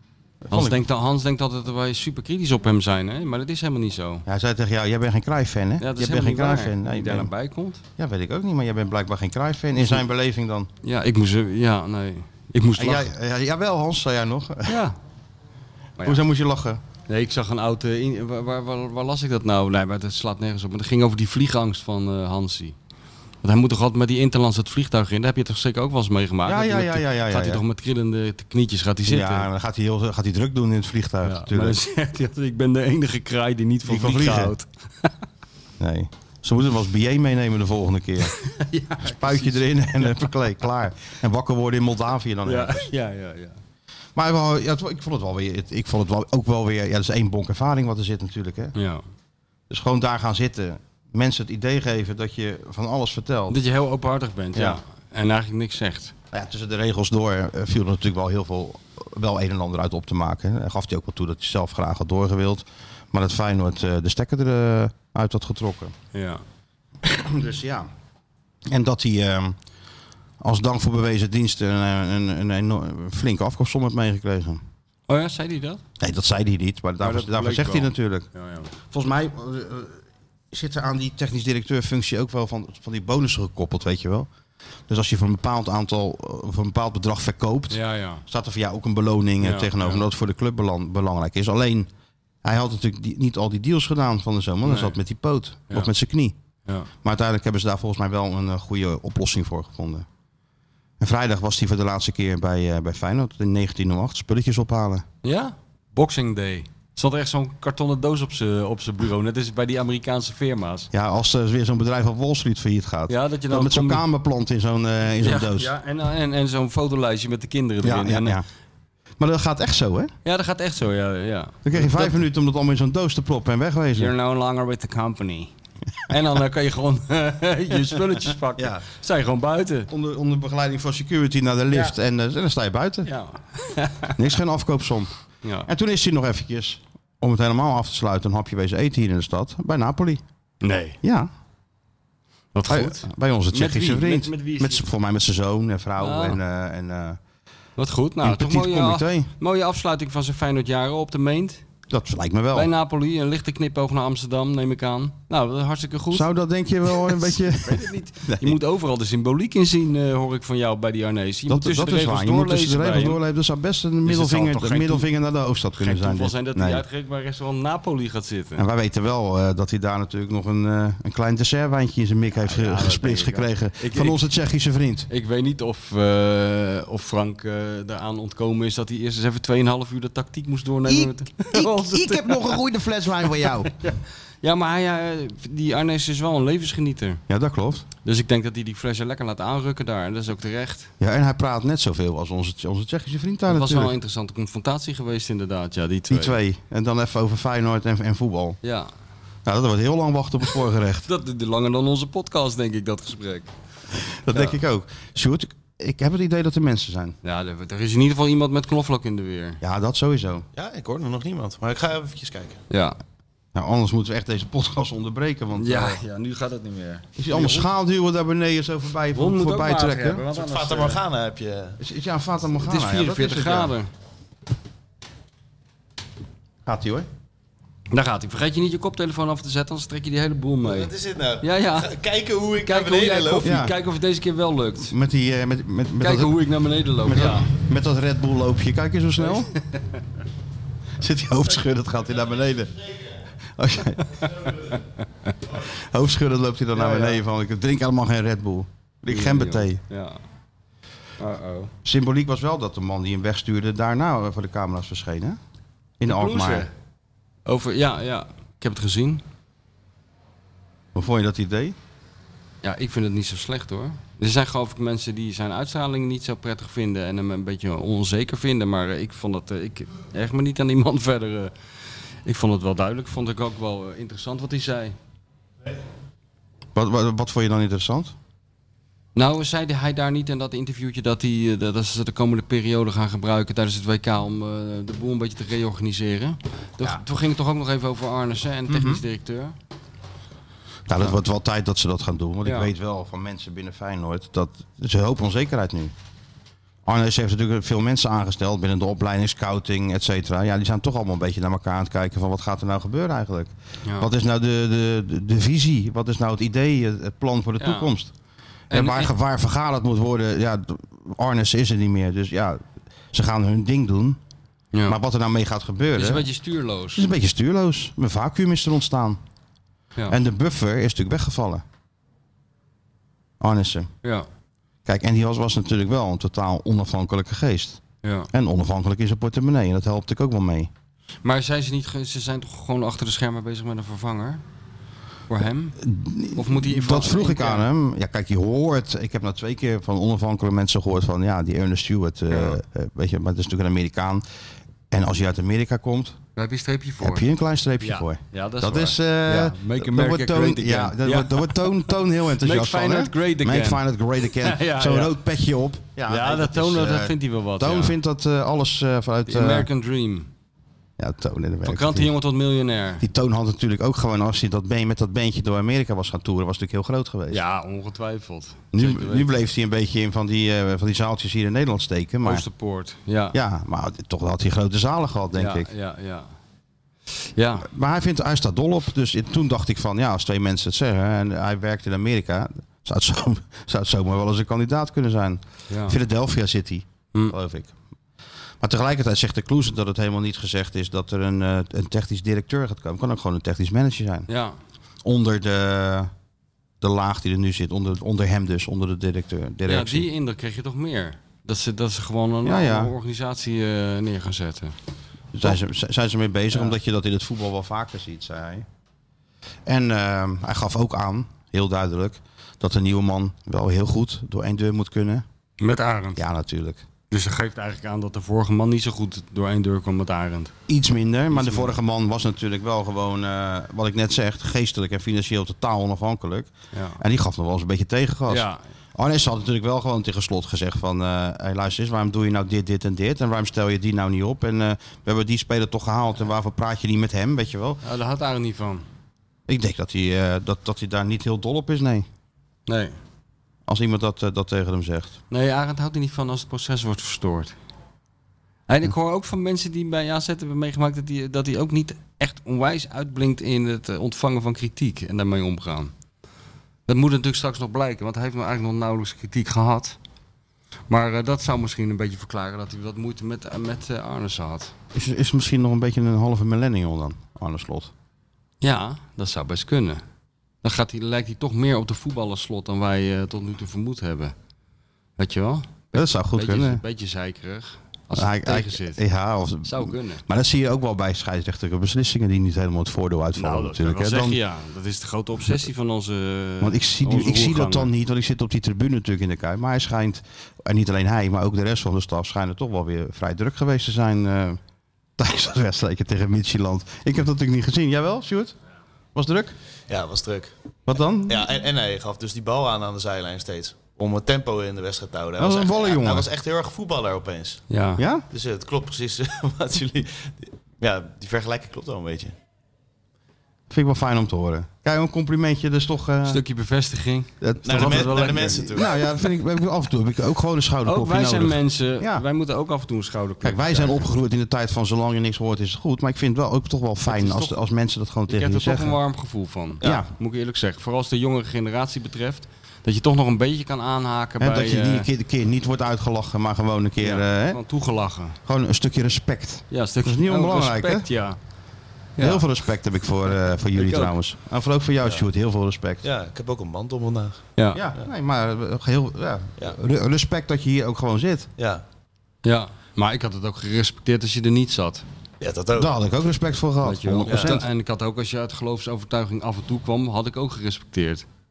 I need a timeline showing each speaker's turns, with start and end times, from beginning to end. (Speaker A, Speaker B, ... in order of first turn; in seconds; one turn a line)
Speaker A: 0.4-0.8
Speaker B: 0.5-4.2
Speaker A: 4.2-7.3
Speaker B: 5.8-7.8
Speaker A: 8.0-10.7
Speaker B: 10.8-13.1
Speaker A: 12.8-14.8
Speaker B: 14.7-15.0
Speaker A: 16.0-16.8
Speaker B: 17.1-22.7
Speaker B: 23.4-29.5
Speaker A: 26.4-27.6
Speaker A: 29.1-31.8
Speaker B: 31.2-35.1
Speaker A: 33.9-34.5
Speaker A: 35.8-38.3
Speaker B: 38.3-40.3
Speaker A: 39.0-42.8
Speaker B: 42.4-43.6
Speaker A: 44.1-48.7
Speaker B: 48.7-49.0
Speaker A: 49.7-53.6
Speaker B: 53.5-56.1
Speaker A: 56.3-65.9
Speaker B: 66.1-66.4
Speaker A: 67.0-67.9
Speaker A: 68.7-69.5
Speaker A: 70.4-74.6
Speaker B: 75.1-75.8
Speaker A: 76.0-78.3
Speaker B: 77.0-78.7
Speaker A: 78.9-84.3
Speaker A: 84.9-91.9
Speaker B: 87.7-88.2
Speaker B: 89.4-90.0
Speaker A: 92.4-96.3
Speaker B: 94.6-95.0
Speaker A: 97.0-100.0
Speaker A: 101.0-105.0
Speaker B: 105.2-110.9
Speaker A: 110.9-115.7
Speaker B: 113.1-114.0
Speaker B: 115.2-118.4
Speaker A: 117.8-118.4
Speaker A: 119.2-120.1
Speaker B: 120.2-122.2
Speaker A: 121.6-124.1
Speaker B: 124.0-125.5
Speaker B: 126.1-129.9
Speaker A: 127.9-128.8
Speaker A: 129.9-133.1
Speaker B: 133.0-134.2
Speaker A: 134.2-135.1
Speaker B: 135.4-135.7
Speaker A: 135.7-140.2
Speaker B: 140.6-141.0
Speaker A: 141.0-141.3
Speaker B: 142.5-144.8
Speaker A: 142.7-147.2
Speaker B: 146.0-146.4
Speaker B: 147.8-151.6
Speaker A: 148.2-149.3
Speaker A: 151.9-152.7
Speaker B: 152.5-156.3
Speaker A: 156.1-158.6
Speaker B: 156.9-163.2
Speaker A: 161.5-166.8
Speaker B: 164.0-165.1
Speaker B: 165.8-168.6
Speaker A: 168.6-175.1
Speaker B: 172.3-174.2
Speaker B: 175.1-182.6
Speaker A: 180.8-183.7
Speaker B: 183.3-187.2
Speaker A: 187.3-187.8
Speaker B: 188.0-190.9
Speaker A: 191.0-193.9
Speaker B: 193.5-196.4
Speaker A: 196.1-198.6
Speaker B: 198.6-198.9
Speaker A: 199.4-201.1
Speaker B: 201.0-203.5
Speaker A: 204.2-207.2
Speaker B: 204.3-204.6
Speaker B: 207.2-209.6
Speaker A: 209.6-210.4
Speaker C: 210.5-212.6
Speaker B: 212.7-213.0
Speaker A: 213.5-216.0
Speaker B: 215.6-217.7
Speaker A: 217.2-220.2
Speaker B: 219.1-221.0
Speaker C: 220.3-221.8
Speaker A: 221.8-223.7
Speaker B: 222.6-223.9
Speaker A: 226.7-227.1
Speaker B: 227.9-231.9
Speaker C: 230.6-233.5
Speaker B: 232.6-234.9
Speaker A: 233.4-233.8
Speaker A: 234.9-236.4
Speaker B: 236.0-237.5
Speaker A: 237.0-239.5
Speaker B: 239.2-240.0
Speaker A: 241.0-243.0
Speaker A: 243.6-244.7
Speaker A: 245.5-249.8
Speaker B: 246.7-247.2
Speaker B: 249.1-250.2
Speaker B: 251.2-251.7
Speaker A: 251.8-255.4
Speaker A: 256.0-256.7
Speaker B: 256.1-256.7
Speaker B: 257.4-259.2
Speaker A: 260.9-261.8
Speaker B: 262.6-271.5
Speaker B: 272.2-274.9
Speaker A: 276.7-278.1
Speaker B: 279.1-289.5
Speaker A: 288.7-289.0
Speaker A: 290.9-295.9
Speaker B: 292.4-292.7
Speaker A: 296.9-308.1
Speaker B: 303.8-304.1
Speaker B: 307.6-307.9
Speaker B: 308.7-309.1
Speaker A: 308.7-314.2
Speaker A: 314.9-316.2
Speaker B: 315.9-317.1
Speaker A: 316.9-319.2
Speaker A: 320.1-321.6
Speaker A: 323.4-323.9
Speaker A: 324.9-327.8
Speaker B: 328.0-328.3
Speaker A: 328.3-330.7
Speaker B: 331.2-334.4
Speaker B: 335.3-335.8
Speaker A: 335.8-344.2
Speaker B: 336.3-337.7
Speaker B: 342.3-342.6
Speaker A: 344.9-346.2
Speaker B: 346.4-347.2
Speaker A: 347.0-359.7
Speaker B: 347.8-351.7
Speaker B: 352.4-355.1
Speaker B: 356.1-357.9
Speaker B: 359.3-360.3
Speaker A: 361.0-362.1
Speaker B: 361.6-363.0
Speaker A: 363.0-367.4
Speaker B: 367.3-369.3
Speaker A: 368.7-372.4
Speaker B: 372.2-373.4
Speaker A: 373.3-375.7
Speaker B: 375.3-376.3
Speaker B: 377.2-377.7
Speaker A: 377.6-387.7
Speaker B: 385.7-386.0
Speaker A: 388.6-394.3
Speaker B: 394.3-394.6
Speaker A: 395.0-396.1
Speaker A: 396.8-400.1
Speaker B: 399.7-404.7
Speaker A: 402.4-402.9
Speaker A: 405.3-408.6
Speaker A: 409.6-415.2
Speaker B: 415.6-416.2
Speaker A: 416.1-416.8
Speaker B: 417.1-420.5
Speaker A: 420.7-437.8
Speaker B: 421.3-421.7
Speaker B: 426.7-427.0
Speaker B: 428.3-428.6
Speaker B: 437.8-438.8
Speaker A: 439.5-442.1
Speaker B: 442.7-442.9
Speaker A: 443.7-445.1
Speaker B: 445.3-447.5
Speaker B: 448.7-455.9
Speaker B: 456.9-460.0
Speaker B: 460.9-464.7
Speaker A: 464.9-467.9
Speaker B: 468.6-470.0
Speaker B: 470.6-474.3
Speaker B: 475.2-479.0
Speaker A: 475.9-476.8
Speaker A: 478.1-484.4
Speaker B: 479.6-480.2
Speaker B: 483.4-487.9
Speaker A: 486.6-494.6
Speaker A: 495.2-498.5
Speaker A: 499.1-499.5
Speaker C: 499.9-500.5
Speaker A: 500.9-501.5
Speaker C: 501.2-507.6
Speaker A: 505.4-506.3
Speaker B: 507.7-508.0
Speaker A: 508.0-508.2
Speaker C: 508.3-512.4
Speaker A: 513.7-516.4
Speaker B: 516.2-518.7
Speaker A: 517.4-522.2
Speaker C: 517.6-518.9
Speaker B: 520.9-524.0
Speaker A: 523.4-529.0
Speaker B: 527.0-527.5
Speaker B: 528.3-535.1
Speaker A: 529.8-530.1
Speaker A: 534.4-537.6
Speaker B: 537.0-538.4
Speaker A: 538.4-541.1
Speaker B: 539.7-541.4
Speaker B: 542.2-542.4
Speaker A: 542.2-546.0
Speaker B: 543.7-544.1
Speaker C: 546.0-547.5
Speaker B: 547.6-547.8
Speaker A: 547.7-551.5
Speaker C: 551.6-551.8
Speaker B: 552.4-555.0
Speaker C: 555.4-555.9
Speaker A: 555.7-557.7
Speaker B: 556.8-561.2
Speaker C: 557.3-557.6